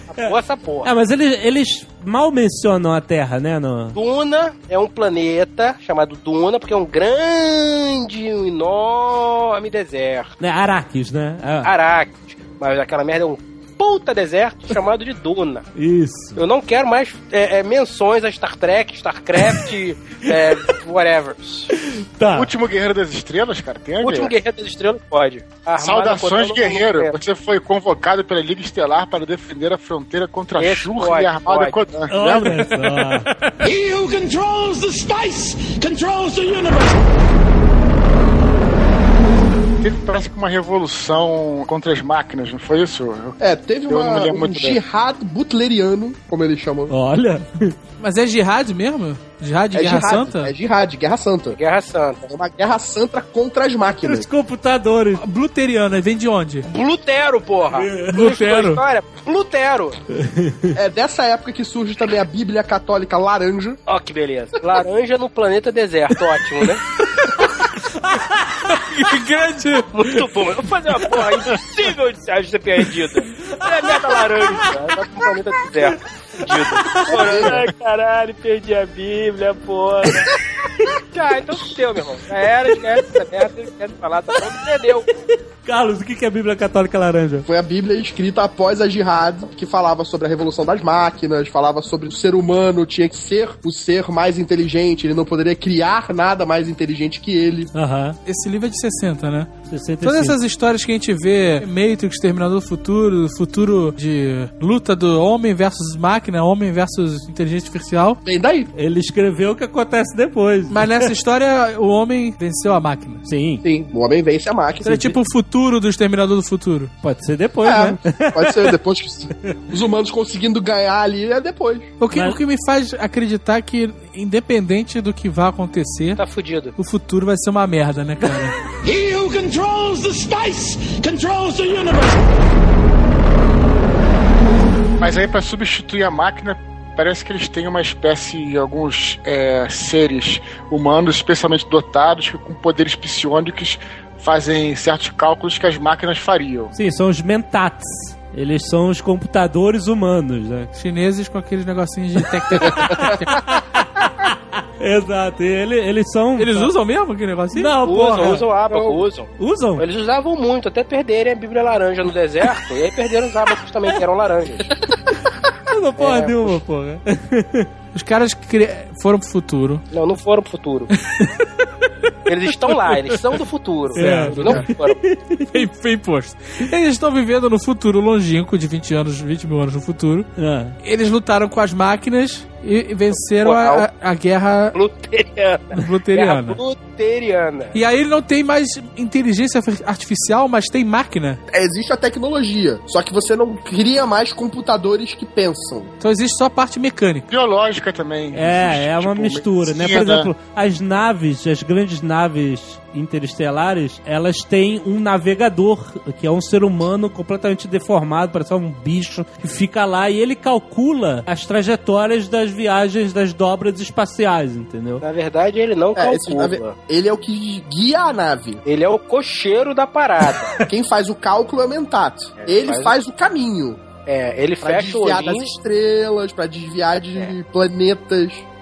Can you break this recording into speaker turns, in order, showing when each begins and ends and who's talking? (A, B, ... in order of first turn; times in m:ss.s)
0:00.1-0:00.9 A
0:00.8-0:04.0 B
0:03.9-0:10.3 A
0:10.4-0:11.7 B
0:11.6-0:15.7 A
0:15.8-0:16.4 B
0:16.4-0:21.7 A
0:21.7-0:22.5 B
0:22.3-0:24.3 C
0:24.0-0:27.2 A
0:25.8-0:32.6 C
0:30.6-0:31.8 A
0:32.1-0:33.3 B
0:33.6-0:37.0 D
0:39.8-0:43.4 C
0:43.4-0:46.9 E
0:43.9-0:44.8 C
0:46.9-0:47.8 B
0:48.0-0:50.5 F
0:49.7-0:51.6 E
0:51.5-0:52.3 A
0:52.2-0:54.3 E
0:54.0-0:55.2 B
0:55.2-0:56.6 F
0:56.6-1:00.0 A
0:57.7-0:58.2 B
0:58.1-0:58.8 F
1:00.2-1:00.7 B
1:00.7-1:03.8 E
1:03.9-1:06.8 A
1:07.9-1:08.8 B
1:08.7-1:10.2 F
1:10.0-1:20.3 A
1:13.6-1:14.4 B
1:16.5-1:17.6 B
1:21.1-1:25.1 A
1:25.6-1:27.5 B
1:27.5-1:37.7 E
1:37.7-1:38.2 B
1:38.2-1:48.2 F
1:39.7-1:40.4 B
1:48.2-1:48.7 E
1:48.7-1:51.1 B
1:50.7-1:53.2 F
1:53.2-1:53.6 B
1:53.6-1:55.2 E
1:54.8-1:56.9 F
1:57.0-1:58.8 B
1:57.6-2:01.9 E
2:02.0-2:06.2 F
2:06.2-2:06.7 A
2:06.8-2:08.6 F
2:08.8-2:12.2 D
2:15.0-2:26.7 C
2:26.7-2:30.7 B
2:30.7-2:33.4 F
2:32.5-2:36.7 B
2:36.4-2:37.8 F
2:37.5-2:38.4 B
2:37.8-2:44.7 A
2:38.7-2:39.0 E
2:39.4-2:39.8 B
2:45.7-2:47.7 B
2:46.0-2:46.6 A
2:47.9-2:49.8 F
2:49.9-2:50.9 A
2:52.3-2:55.0 A
2:53.9-2:55.6 B
2:53.9-2:54.7 F
2:55.5-3:00.3 F
3:00.4-3:00.8 B
3:00.8-3:04.8 F
3:03.1-3:03.8 A
3:04.7-3:07.8 A
3:05.7-3:06.6 F
3:07.7-3:11.4 F
3:11.5-3:15.9 E
3:16.0-3:17.3 F
3:17.3-3:20.3 C
3:18.3-3:35.0 B
3:35.0-3:36.8 A
3:35.9-3:38.6 E
3:38.6-3:40.6 A
3:40.6-3:43.9 E
3:42.4-3:42.9 A
3:44.0-3:45.5 A
3:44.6-3:48.4 E